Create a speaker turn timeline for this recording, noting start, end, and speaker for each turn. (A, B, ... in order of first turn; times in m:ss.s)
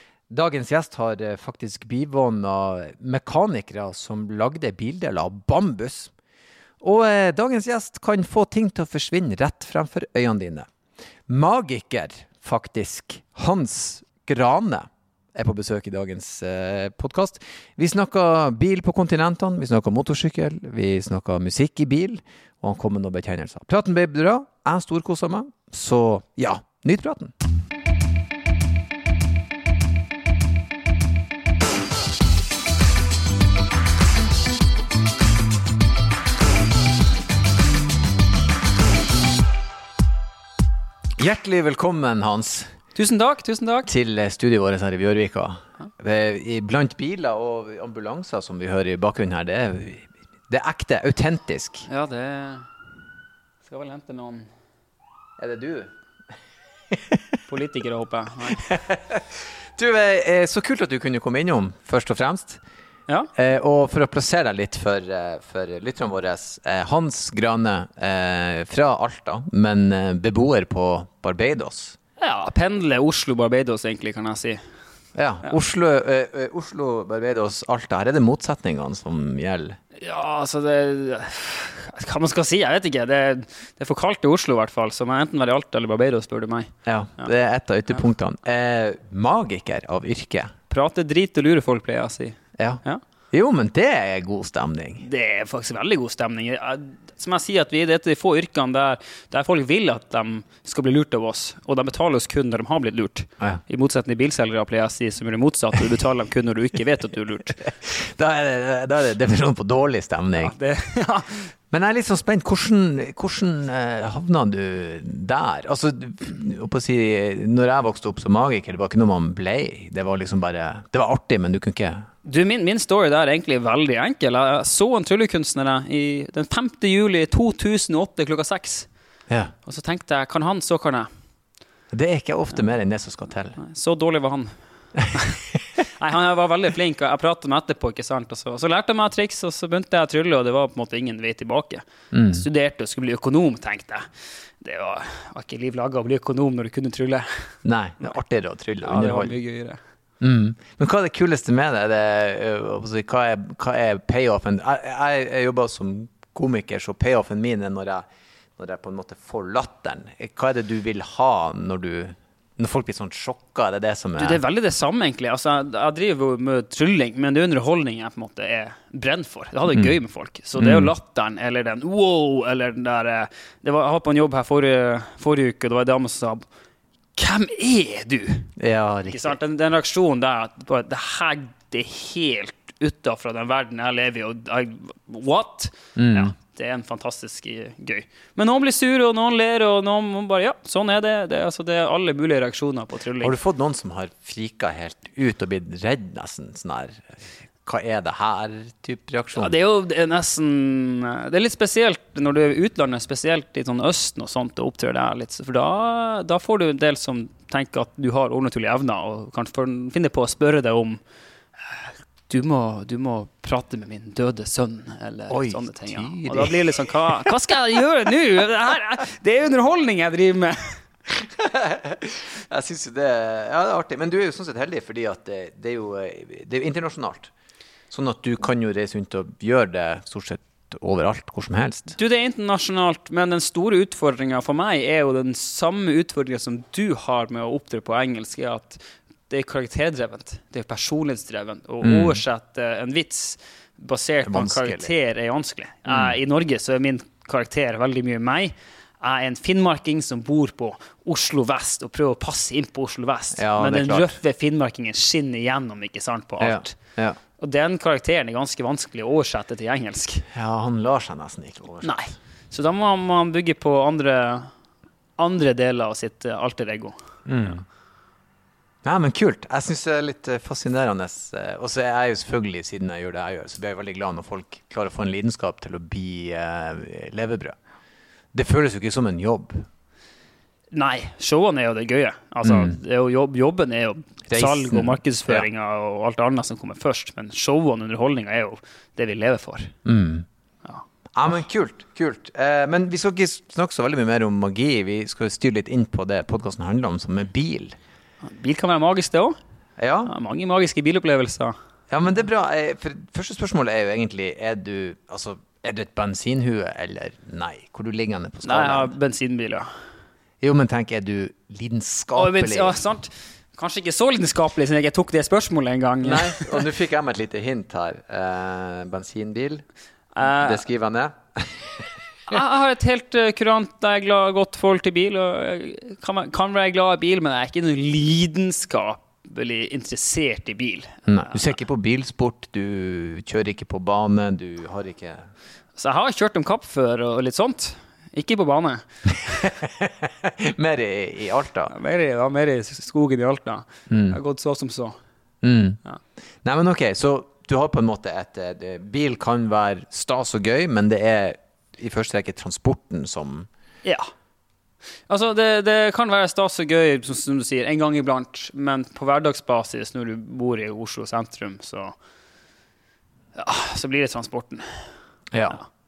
0:00.3-0:06.1 A
0:06.8-0:10.7 A
0:11.3-0:27.3 A
0:41.2-0:42.7 A
0:43.0-0:43.9 B
0:43.9-0:51.9 A
0:51.9-0:52.7 B
0:53.6-0:54.5 B
0:55.4-0:55.9 A
0:56.9-0:57.2 A
0:57.5-0:58.7 B
0:58.5-1:02.6 A
1:03.4-1:12.0 A
1:12.2-1:14.6 B
1:15.2-1:19.8 A
1:20.0-1:27.3 B
1:26.9-1:30.6 A
1:30.7-1:33.0 B
1:32.6-1:35.0 A
1:35.0-1:47.6 B
1:47.6-1:50.6 A
1:50.4-1:51.5 B
1:51.7-2:02.1 A
2:02.2-2:08.9 B
2:09.3-2:09.5 A
2:09.7-2:11.1 B
2:11.9-2:13.6 A
2:13.6-2:14.6 B
2:15.0-2:15.6 A
2:15.1-2:27.6 B
2:22.1-2:22.4 A
2:27.6-2:29.4 A
2:28.8-2:29.8 B
2:30.2-2:38.0 A
2:38.6-2:44.4 A
2:44.2-2:56.4 B
2:50.6-2:50.9 A
2:57.2-2:58.5 B
2:58.6-2:59.4 A
2:59.1-3:13.4 B
3:06.0-3:06.3 A
3:13.2-3:17.1 A
3:17.6-3:19.5 A
3:19.4-3:31.0 B
3:31.7-3:40.8 B
3:35.3-3:37.3 A
3:41.1-3:47.3 A
3:47.9-3:52.0 A
3:52.0-4:16.8 B
4:01.8-4:02.2 A
4:04.2-4:04.9 A
4:05.9-4:06.2 A
4:13.3-4:14.2 A
4:16.4-4:17.2 A
4:17.4-4:20.3 B
4:20.3-4:22.0 A
4:21.8-4:24.5 B
4:25.2-4:27.0 B
4:27.3-4:27.6 A
4:28.8-4:37.6 A
4:38.3-4:39.7 A
4:40.7-4:49.7 B
4:42.4-4:42.8 A
4:44.3-4:45.5 A
4:49.8-4:50.3 A
4:51.2-4:57.8 A
4:58.2-4:59.4 B
4:59.8-5:00.1 A
5:00.1-5:01.6 B
5:01.9-5:08.9 A
5:08.4-5:09.7 B
5:10.4-5:12.8 A
5:12.2-5:16.6 B
5:16.0-5:19.7 A
5:20.2-5:20.6 B
5:20.2-5:22.4 A
5:22.3-5:31.5 B
5:31.1-5:35.3 A
5:35.8-5:39.5 B
5:39.4-5:41.7 A
5:41.7-5:45.0 B
5:43.9-5:44.2 A
5:45.4-5:45.8 A
5:46.4-5:53.5 A
5:53.8-5:54.1 B
5:55.1-6:02.0 B
6:03.4-6:04.9 B
6:05.3-6:05.6 A